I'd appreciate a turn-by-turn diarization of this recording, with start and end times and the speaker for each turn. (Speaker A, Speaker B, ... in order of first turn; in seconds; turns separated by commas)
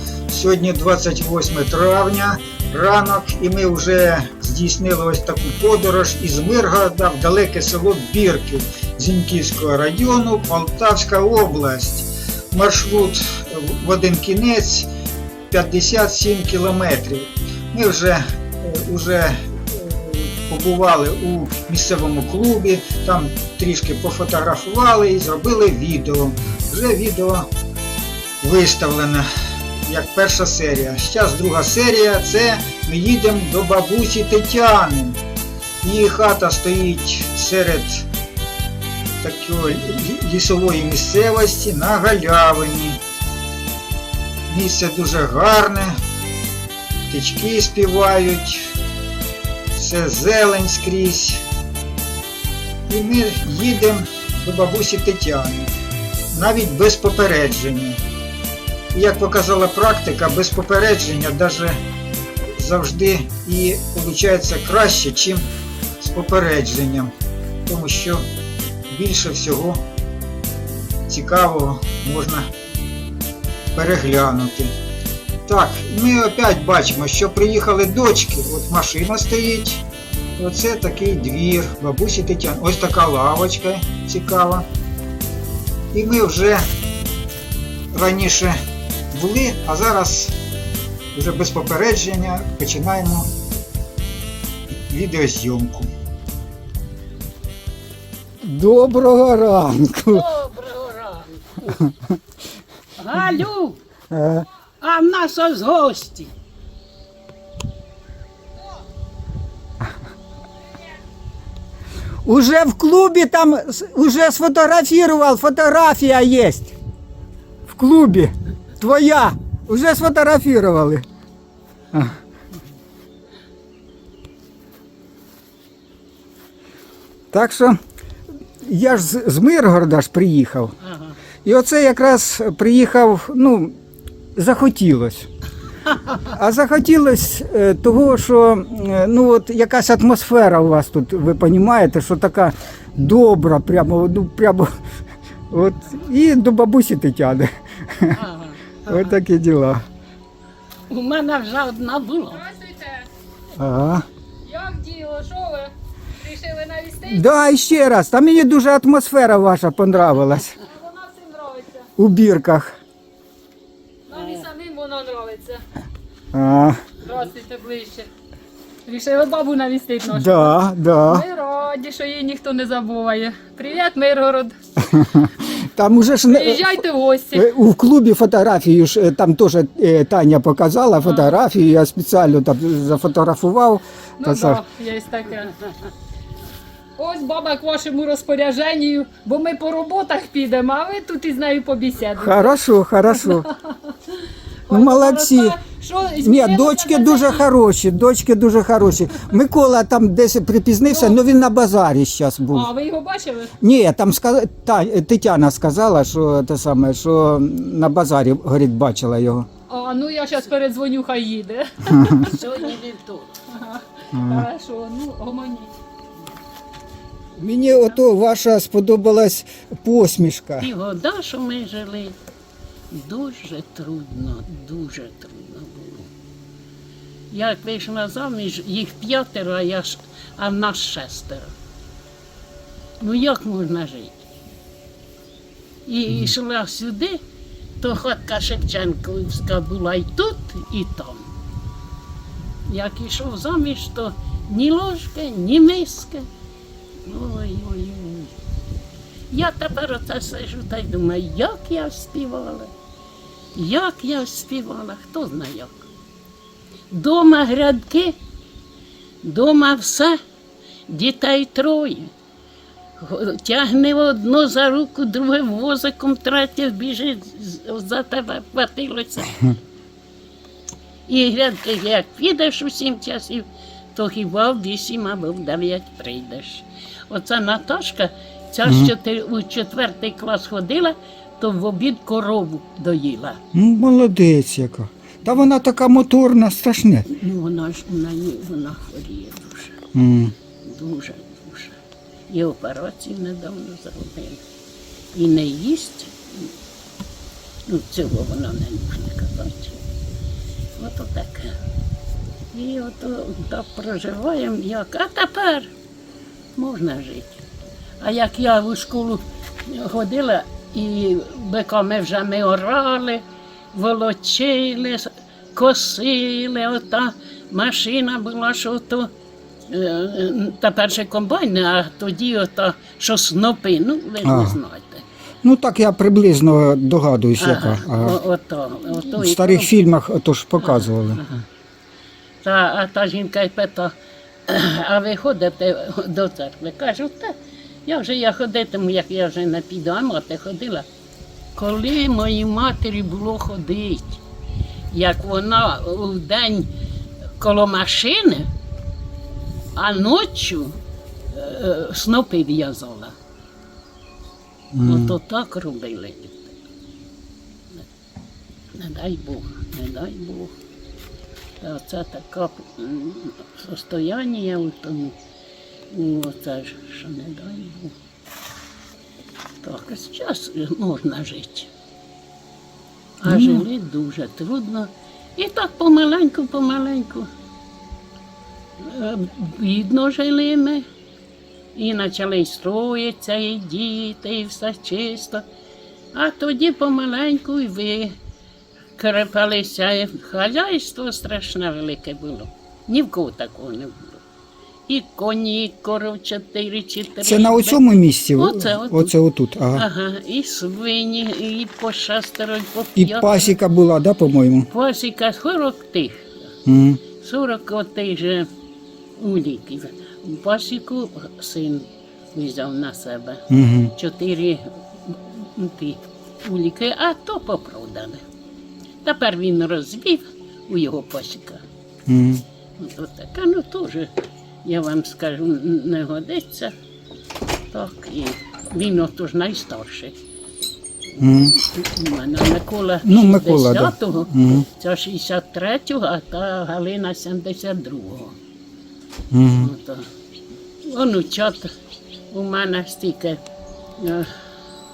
Speaker A: 0.3-14.9, Speaker A: 15.5-27.5, Speaker A: 28.4-29.3, Speaker A: 29.9-35.2, Speaker A: 35.8-38.0, Speaker A: 39.2-43.0, Speaker A: 44.5-46.0, Speaker A: 47.1-48.7, Speaker A: 49.7-51.4, Speaker A: 52.9-55.7, Speaker A: 56.3-58.0, Speaker A: 58.9-61.8, Speaker A: 62.6-65.5, Speaker A: 66.0-67.1, Speaker A: 67.7-68.2, Speaker A: 68.9-69.8, Speaker A: 71.1-72.5, Speaker A: 73.8-74.7, Speaker A: 75.5-79.8, Speaker A: 80.4-84.7, Speaker A: 85.9-86.7, Speaker A: 87.9-88.6, Speaker A: 89.1-90.3, Speaker A: 91.1-93.3, Speaker A: 94.9-95.9, Speaker B: 98.4-100.2, Speaker C: 100.1-101.8, Speaker C: 103.0-103.8, Speaker B: 104.1-104.5, Speaker C: 104.8-106.3, Speaker B: 112.2-116.8, Speaker B: 117.7-121.0, Speaker B: 121.9-122.2, Speaker B: 127.3-127.8, Speaker B: 128.6-130.8, Speaker C: 130.8-131.2, Speaker B: 131.4-133.8, Speaker B: 134.4-135.3, Speaker B: 136.2-144.7, Speaker B: 145.5-148.2, Speaker C: 148.1-149.2, Speaker B: 148.9-149.8, Speaker C: 150.9-152.4, Speaker D: 152.3-153.1, Speaker B: 153.6-154.1, Speaker D: 154.4-157.3, Speaker B: 157.1-160.5, Speaker D: 160.6-161.9, Speaker B: 162.0-162.8, Speaker D: 164.1-165.6, Speaker B: 166.3-166.8, Speaker D: 167.0-168.1, Speaker D: 168.9-170.5, Speaker B: 170.1-171.3, Speaker D: 171.1-174.6, Speaker B: 174.8-184.6, Speaker D: 176.3-177.5, Speaker D: 181.0-181.3, Speaker D: 184.2-185.5, Speaker D: 187.0-192.5, Speaker B: 192.2-193.5, Speaker D: 193.2-193.7, Speaker D: 194.7-197.4, Speaker B: 194.7-195.6, Speaker B: 196.2-202.7, Speaker D: 200.9-201.2, Speaker D: 202.5-203.5, Speaker B: 203.6-209.5, Speaker D: 209.7-212.4, Speaker C: 212.1-213.3, Speaker D: 213.5-215.7, Speaker B: 214.2-214.5, Speaker B: 217.4-220.7, Speaker C: 220.6-222.2, Speaker C: 222.9-226.1, Speaker C: 227.3-231.5, Speaker C: 233.0-234.3, Speaker C: 235.9-237.2, Speaker C: 237.8-241.3, Speaker C: 242.7-246.3, Speaker C: 247.1-248.3, Speaker C: 249.3-252.7, Speaker C: 253.6-255.9, Speaker C: 256.9-258.2, Speaker C: 259.2-260.2, Speaker C: 260.9-262.1, Speaker C: 263.0-269.4, Speaker C: 271.1-283.4, Speaker B: 278.6-278.9, Speaker B: 283.5-287.1, Speaker C: 287.1-289.8, Speaker B: 289.9-290.4, Speaker C: 290.6-291.8, Speaker C: 292.3-294.4, Speaker C: 295.1-296.5, Speaker C: 297.7-299.8, Speaker C: 300.8-301.6, Speaker C: 302.5-305.7, Speaker C: 306.6-307.4, Speaker C: 308.0-319.1, Speaker C: 319.7-325.1, Speaker B: 324.2-324.6, Speaker B: 325.4-328.2, Speaker C: 327.4-329.9, Speaker B: 329.2-331.2, Speaker C: 330.6-331.4, Speaker C: 332.4-333.9, Speaker C: 334.5-337.4, Speaker C: 337.9-340.9, Speaker C: 341.6-344.2, Speaker C: 344.9-346.7, Speaker C: 347.4-348.5, Speaker C: 349.8-350.8, Speaker C: 351.3-353.1, Speaker B: 354.7-355.2, Speaker C: 354.9-356.5, Speaker C: 358.8-360.5, Speaker C: 361.6-365.1, Speaker C: 365.9-367.9, Speaker C: 369.6-371.7, Speaker C: 373.2-377.3, Speaker B: 373.2-373.7, Speaker C: 378.8-380.9, Speaker C: 381.8-385.4, Speaker C: 386.1-388.2, Speaker C: 389.0-394.2, Speaker C: 394.9-397.8, Speaker B: 397.2-399.9, Speaker C: 398.3-399.1, Speaker C: 399.7-403.6, Speaker B: 403.0-404.7, Speaker C: 404.7-406.4, Speaker B: 406.7-407.0, Speaker C: 407.2-408.5, Speaker C: 409.2-413.4, Speaker B: 413.5-413.9, Speaker C: 413.9-418.2, Speaker C: 419.0-421.6, Speaker B: 422.1-422.4, Speaker C: 422.8-424.1, Speaker C: 424.6-426.8, Speaker C: 427.7-430.1, Speaker C: 431.1-438.4, Speaker B: 431.2-431.6, Speaker B: 433.0-434.7, Speaker B: 439.3-439.7, Speaker C: 439.5-440.1, Speaker C: 440.9-441.7, Speaker C: 442.3-443.4, Speaker C: 444.0-444.3